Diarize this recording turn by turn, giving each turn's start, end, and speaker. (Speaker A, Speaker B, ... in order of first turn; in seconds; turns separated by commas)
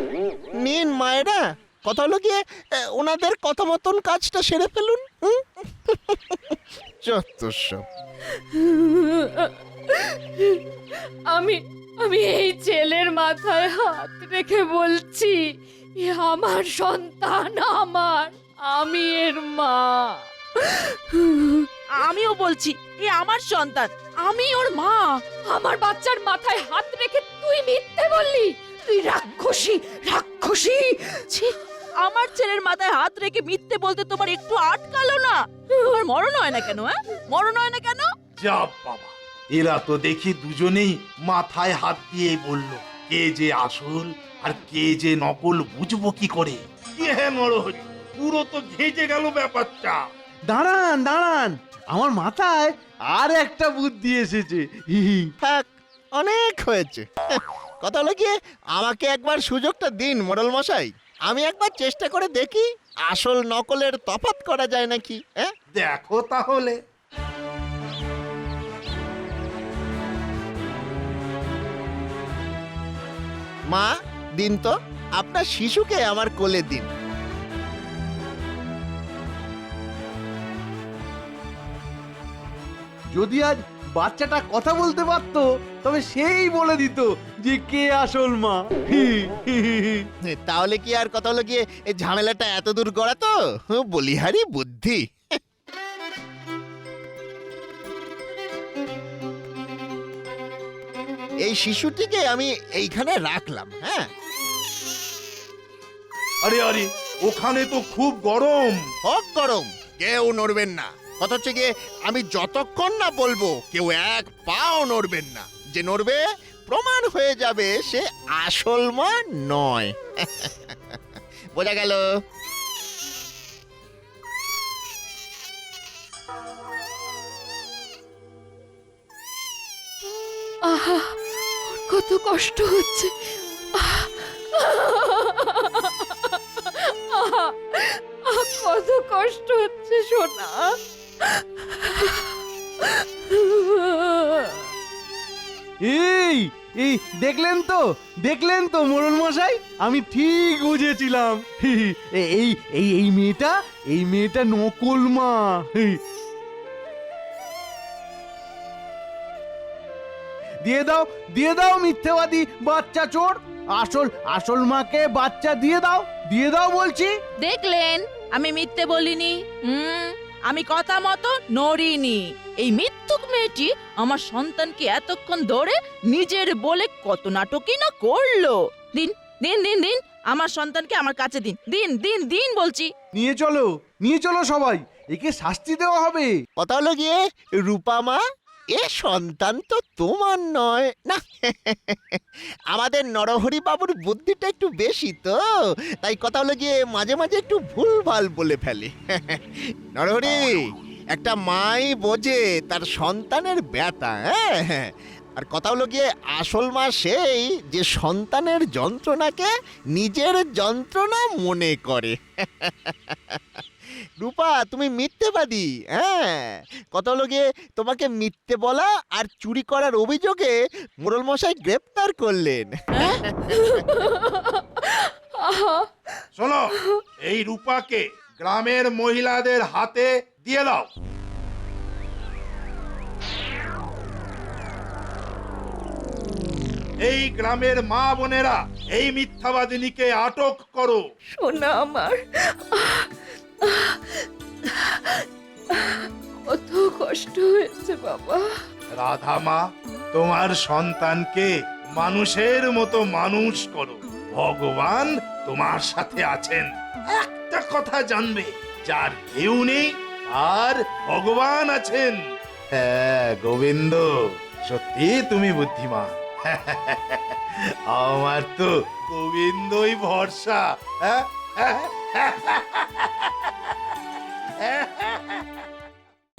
Speaker A: 0.6-7.8, Speaker B: 8.3-10.6, Speaker B: 11.3-15.4, Speaker B: 16.0-20.3, Speaker C: 21.9-25.1, Speaker B: 25.5-31.2, Speaker C: 31.3-38.1, Speaker D: 38.4-50.0, Speaker E: 50.5-55.3, Speaker A: 55.4-57.1, Speaker A: 57.8-65.5, Speaker D: 65.7-66.8, Speaker A: 73.7-76.9, Speaker E: 83.1-90.1, Speaker A: 90.2-95.0, Speaker A: 101.4-104.1, Speaker D: 106.4-108.8, Speaker A: 109.1-121.0, Speaker A: 121.5-122.0, Speaker B: 130.6-133.1, Speaker B: 133.8-140.8, Speaker B: 141.4-142.3, Speaker B: 142.8-144.6, Speaker E: 145.8-156.0, Speaker E: 160.6-167.1, Speaker C: 167.4-182.9, Speaker E: 183.2-186.3, Speaker A: 186.6-188.2, Speaker A: 188.7-192.2, Speaker A: 192.7-195.4, Speaker A: 196.0-213.4, Speaker A: 214.2-223.7, Speaker C: 222.9-223.2, Speaker B: 223.5-225.9, Speaker D: 226.4-230.9, Speaker D: 237.0-241.0, Speaker B: 241.4-245.2, Speaker B: 245.7-248.6, Speaker D: 248.9-262.2, Speaker D: 262.7-264.1, Speaker D: 264.6-273.5, Speaker D: 274.6-275.4